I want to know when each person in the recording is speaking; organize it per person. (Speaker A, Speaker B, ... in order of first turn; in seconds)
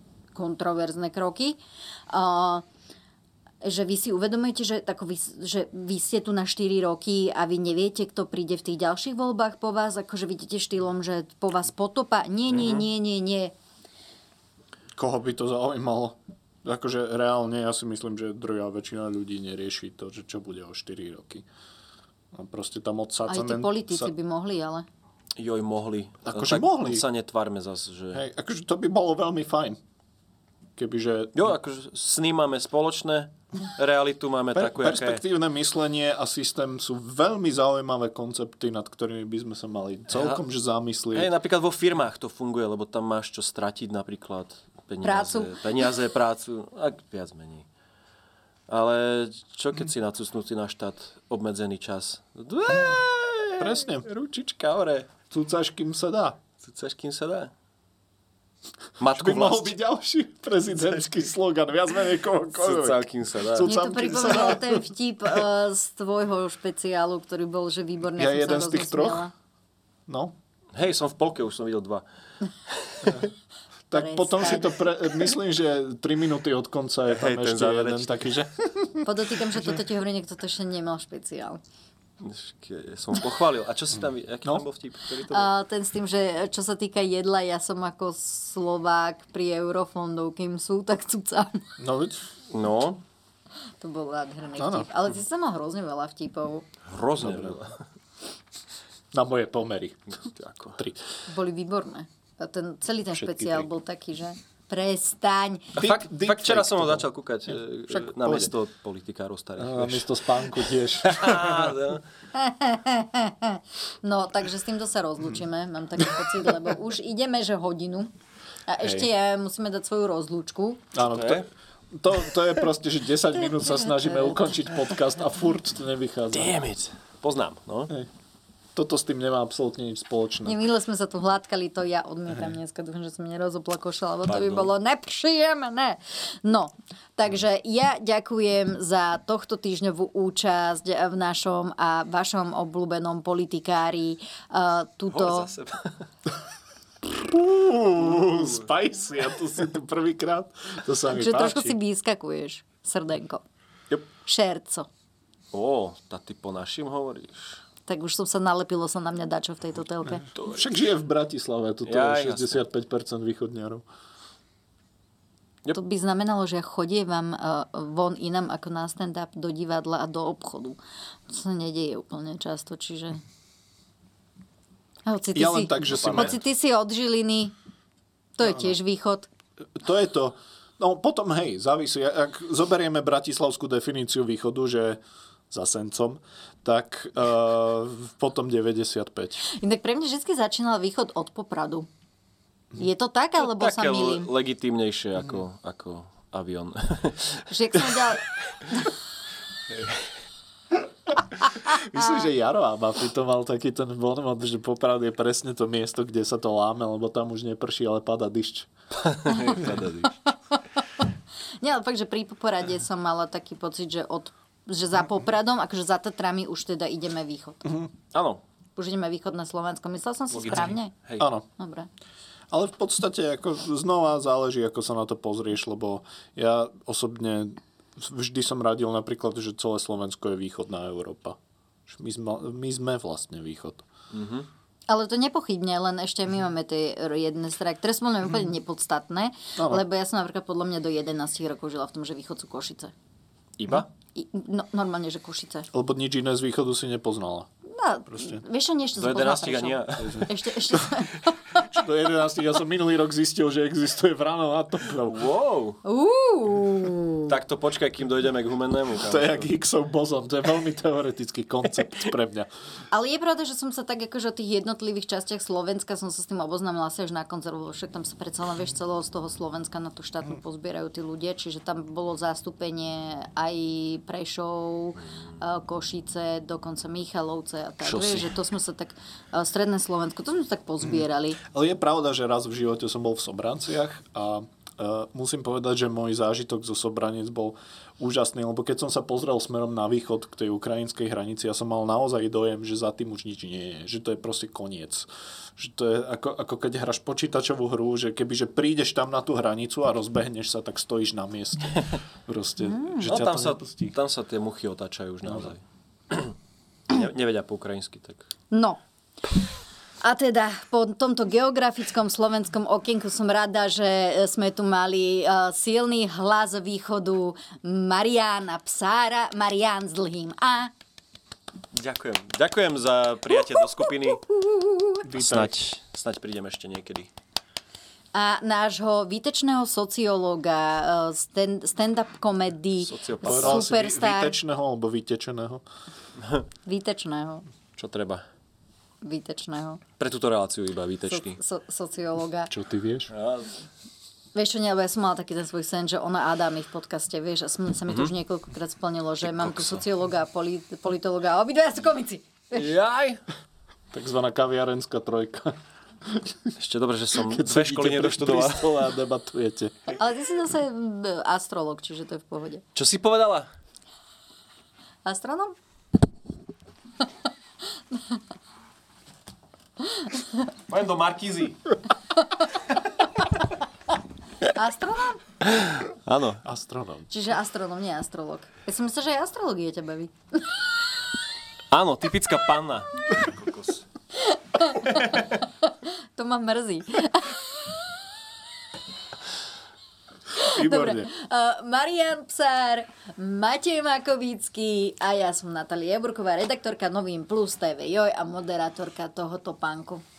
Speaker A: 0.3-1.6, 2.1-2.6, 3.6-13.5, 23.3-24.9, 45.0-45.9, 63.6-69.3, 73.9-74.8, 79.0-81.6, 85.3-91.6, 93.8-96.7, 101.3-105.8, 112.3-118.1, 118.7-120.8, 123.4-124.5, 130.4-145.5, 151.1-153.4, 154.2-154.9, 157.9-160.2, 165.7-173.2, 175.1-177.5, 178.4-179.3, 189.5-191.9, 192.8-194.3, 197.5-198.8, 211.6-217.7, 218.8-221.9, 234.9-242.9, 244.2-245.7, 247.7-251.6, 255.8-257.3, 262.9-281.4, 302.6-303.1, 308.5-308.8, 310.0-320.7, 324.3-325.0, 328.1-334.4, 336.7-337.4, 339.0-339.8, 341.1-342.5, 344.4-352.7, 360.0-362.6, 365.1-365.6, 370.0-370.3, 374.5-375.2, 377.1-380.4, 384.4-387.6, 390.4-400.0
Speaker B: 12.6-12.8, 25.4-28.2, 31.4-35.2, 40.1-40.4, 41.1-47.7, 48.7-55.1, 56.6-57.5, 59.0-59.8, 62.5-64.3, 70.7-72.0, 72.7-73.1, 77.1-78.3, 82.2-85.5, 92.5-93.0, 96.9-97.8, 100.2-100.8, 105.8-110.4, 111.0-112.0, 121.0-121.5, 126.3-127.9, 134.3-134.7, 145.1-145.9, 155.5-157.6, 160.3-160.7, 161.9-162.6, 175.9-176.4, 193.4-197.4, 209.0-210.1, 218.1-218.4, 220.3-221.3, 234.1-234.5, 243.6-243.9, 249.0-250.3, 255.1-255.8, 257.3-259.5, 277.8-278.3, 303.0-306.3, 306.9-308.3, 321.7-324.2, 325.1-327.1, 332.8-333.6, 337.8-338.2, 340.0-341.4, 343.1-343.5, 349.2-349.8, 352.5-353.2, 356.6-358.8, 362.8-363.5, 370.7-371.6, 375.5-376.4, 381.7-383.8
Speaker C: 15.0-21.4, 22.3-24.1, 26.3-27.0, 28.1-29.8, 30.8-31.5, 34.5-41.3, 52.7-53.0, 53.6-54.1, 55.3-56.4, 59.1-64.9, 68.1-69.2, 70.1-70.3, 73.9-79.1, 91.8-92.2, 94.6-94.9, 97.2-97.6, 99.1-100.1, 103.1-103.7, 105.8-108.5, 109.6-111.8, 118.8-119.1, 120.9-126.6, 128.8-130.6, 147.1-151.8, 160.5-163.8, 175.3-176.4, 178.4-178.7, 179.8-189.4, 201.7-208.7, 221.2-221.4, 222.5-233.9, 239.6-239.8, 245.7-247.5, 248.1-248.4, 250.0-250.8, 251.6-255.2, 259.0-262.5, 280.8-303.9, 305.2-305.5, 325.0-325.6, 333.2-335.6, 342.5-343.1, 353.9-355.5, 356.1-356.3, 357.3-359.9, 376.4-377.1, 390.5-391.1